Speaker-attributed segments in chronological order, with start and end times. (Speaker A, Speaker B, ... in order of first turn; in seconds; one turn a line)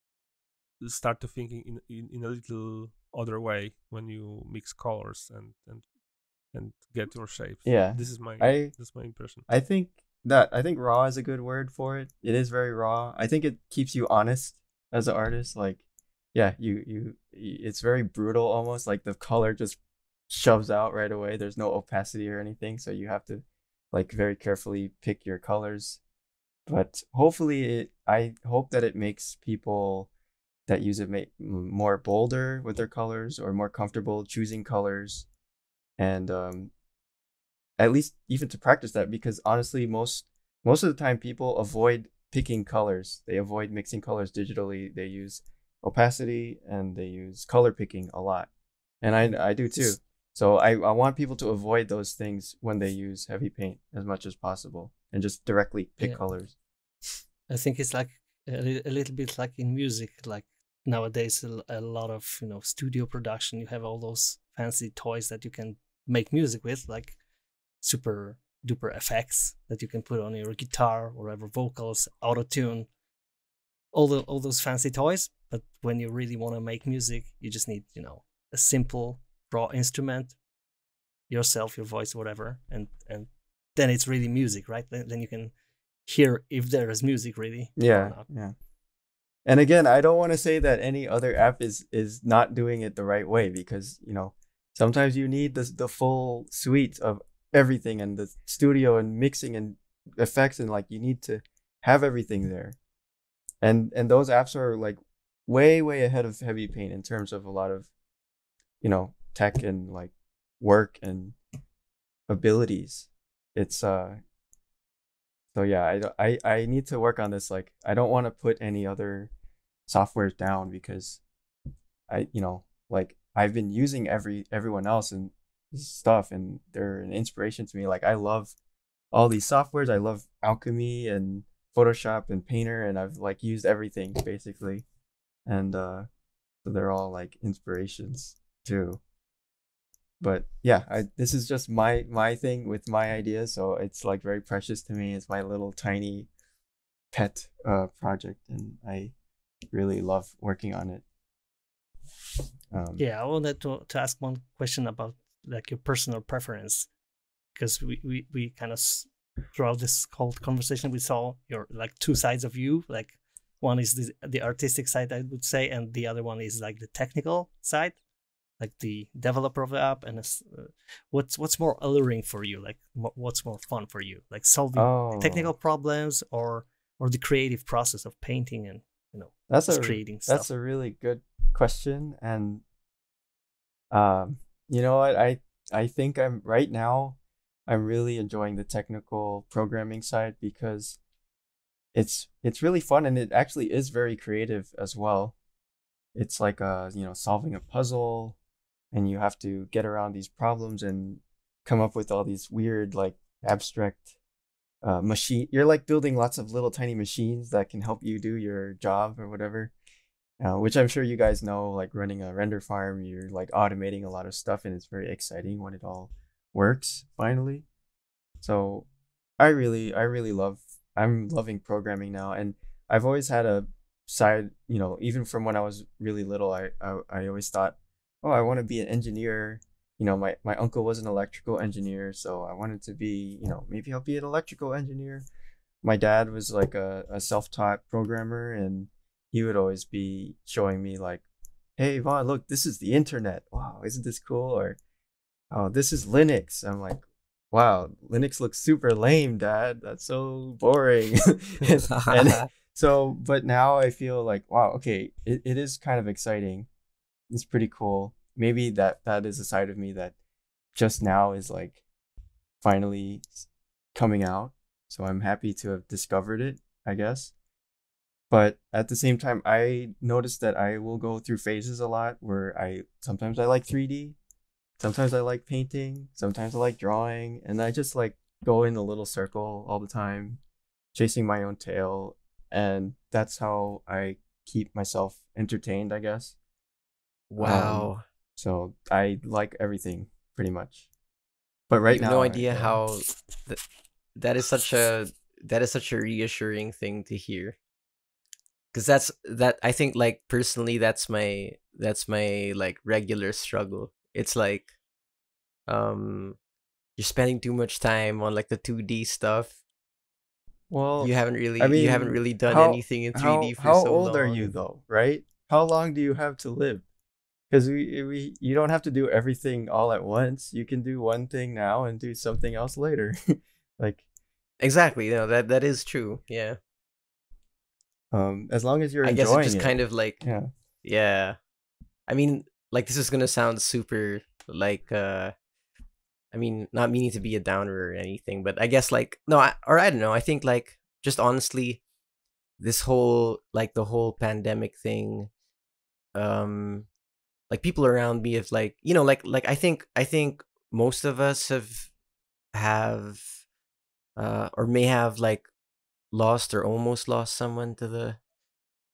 Speaker A: 0.8-5.8
Speaker A: 6.5-9.5
Speaker B: 7.7-8.8
Speaker B: 9.5-15.8
Speaker B: 16.3-19.8
Speaker B: 20.3-26.0
Speaker B: 26.7-30.1
Speaker B: 30.7-35.3
Speaker B: 36.0-36.7
Speaker B: 37.8-48.5
Speaker B: 49.0-56.5
Speaker C: 57.5-67.2
Speaker C: 67.8-72.9
Speaker C: 73.9-80.4
Speaker C: 81.3-85.5
Speaker C: 86.1-88.3
Speaker B: 87.8-88.5
Speaker B: 89.5-102.8
Speaker B: 103.6-107.9
Speaker B: 108.8-111.4
Speaker B: 112.3-114.2
Speaker B: 115.5-119.3
Speaker B: 119.9-121.2
Speaker B: 122.1-128.6
Speaker B: 129.1-134.8
Speaker B: 135.5-136.1
Speaker B: 136.6-139.0
Speaker B: 140.2-146.3
Speaker B: 147.1-149.1
Speaker B: 149.7-151.0
Speaker B: 152.7-153.0
Speaker C: 153.0-156.9
Speaker C: 157.5-168.0
Speaker C: 168.6-180.5
Speaker B: 174.7-175.5
Speaker B: 179.5-182.6
Speaker B: 183.9-191.0
Speaker B: 191.9-195.3
Speaker B: 196.2-198.4
Speaker B: 198.9-204.1
Speaker B: 204.8-209.7
Speaker B: 210.4-217.7
Speaker B: 218.4-218.9
Speaker B: 219.4-235.3
Speaker B: 235.8-241.2
Speaker B: 241.8-244.8
Speaker B: 245.5-256.7
Speaker D: 251.9-252.5
Speaker B: 257.3-260.1
Speaker B: 260.8-261.8
Speaker B: 262.6-267.3
Speaker B: 268.3-274.2
Speaker B: 274.8-280.4
Speaker B: 280.9-286.4
Speaker D: 287.3-288.0
Speaker B: 287.4-290.9
Speaker B: 291.7-292.8
Speaker D: 291.9-293.6
Speaker D: 294.2-297.6
Speaker D: 298.7-304.7
Speaker D: 305.7-306.4
Speaker D: 307.0-309.6
Speaker B: 310.7-316.8
Speaker D: 311.0-314.5
Speaker B: 317.5-324.0
Speaker D: 324.6-326.6
Speaker B: 328.1-330.5
Speaker D: 329.0-330.2
Speaker D: 330.8-331.4
Speaker D: 332.1-335.3
Speaker D: 336.3-341.8
Speaker D: 342.6-345.3
Speaker D: 346.1-346.9
Speaker D: 347.5-351.9
Speaker D: 352.5-353.4
Speaker D: 354.2-355.5
Speaker D: 356.1-358.2